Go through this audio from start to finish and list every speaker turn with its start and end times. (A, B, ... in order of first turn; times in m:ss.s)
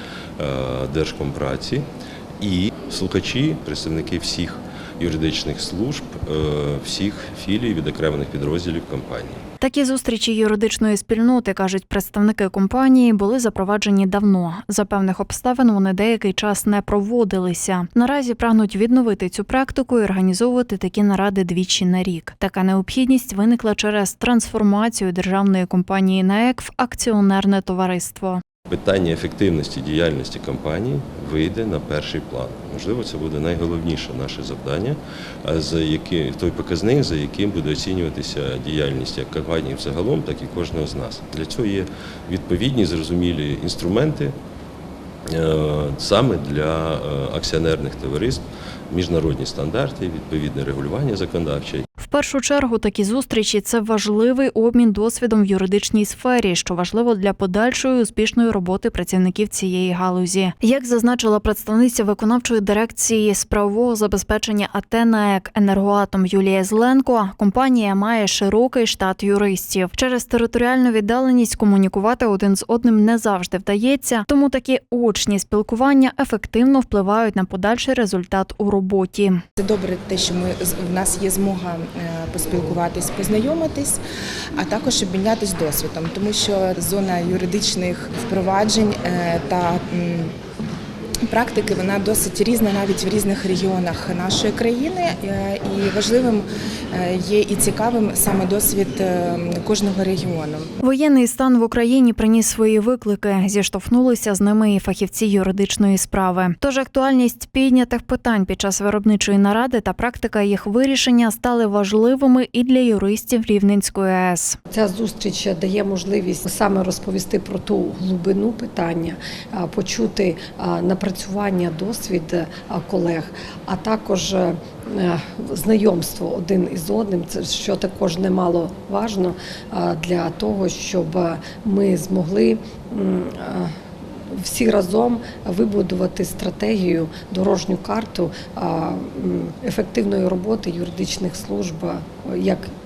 0:00.4-0:01.9 A
0:02.4-0:09.4 A
0:09.6-0:28.4 B
0:28.7-0:44.4 A
0:45.3-0:51.9 A
0:52.0-1:19.4 B
1:19.6-1:24.0 C
1:24.6-1:30.3 C
1:31.3-1:40.7 C
1:40.8-1:54.6 B
1:54.7-2:13.7 D
2:14.3-2:22.7 D